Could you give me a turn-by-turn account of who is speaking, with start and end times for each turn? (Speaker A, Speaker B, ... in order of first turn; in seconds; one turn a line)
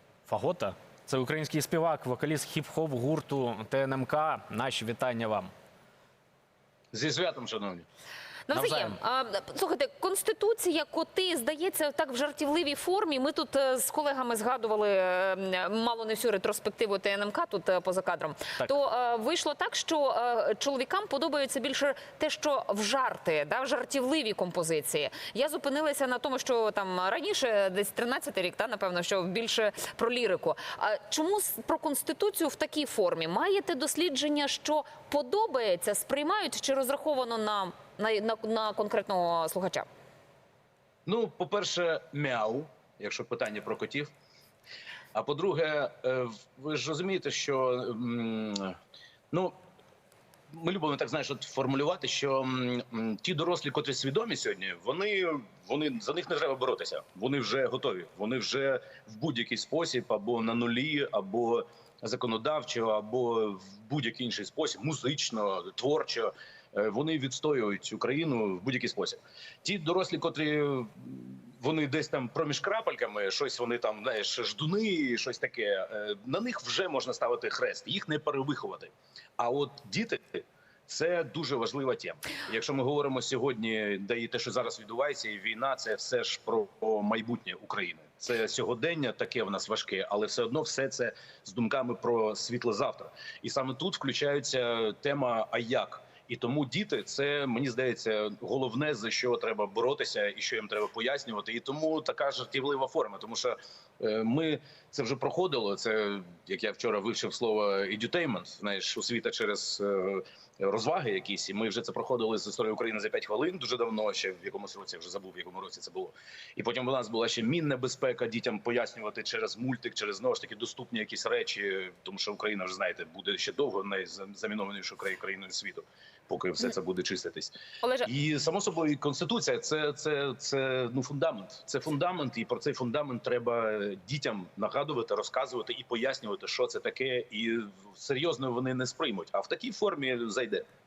Speaker A: 0.3-5.5
Speaker B: 6.9-7.8
Speaker C: 8.5-39.9
Speaker A: 8.5-9.0
Speaker B: 41.0-44.1
Speaker B: 45.1-48.8
Speaker B: 50.5-127.5
Speaker C: 127.8-128.1
Speaker B: 128.0-140.7